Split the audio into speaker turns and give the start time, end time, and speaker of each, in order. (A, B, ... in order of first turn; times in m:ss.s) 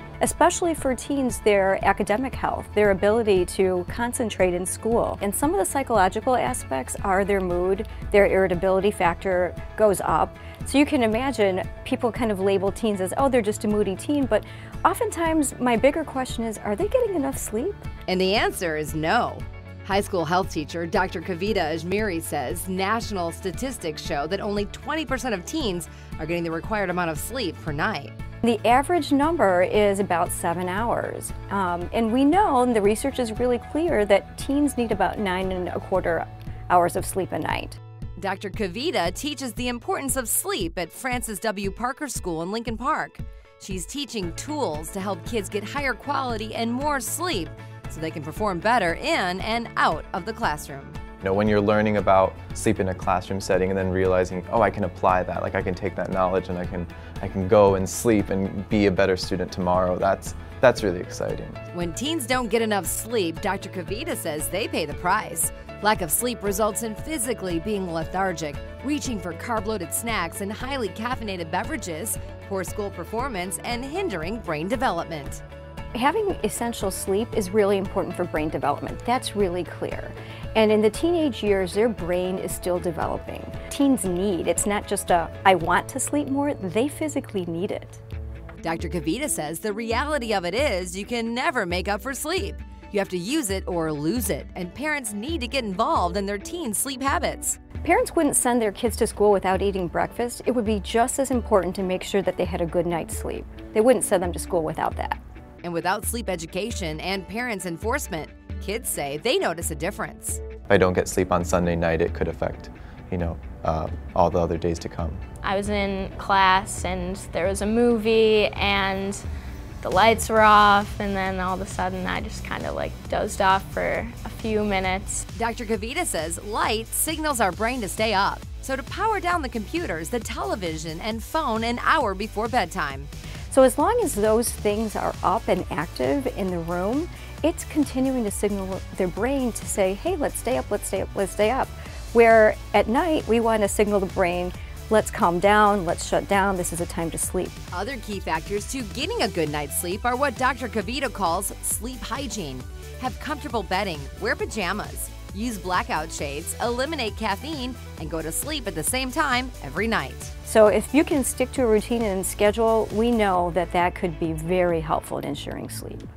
0:00.2-0:17.8 A
0:18.1-0:28.1 B
0:28.4-0:37.8 A
0:38.2-0:51.0 B
0:51.2-1:01.6 C
1:01.7-1:15.4 B
1:15.9-1:28.0 A
1:28.6-1:37.6 B
1:37.8-1:45.2 A
1:45.6-1:50.4 B
1:50.7-1:55.2 C
1:55.4-1:59.2 D
1:59.8-2:05.2 D
2:05.3-2:13.1 B
2:13.5-2:27.6 A
2:27.7-2:40.3 B
2:40.5-2:46.0 A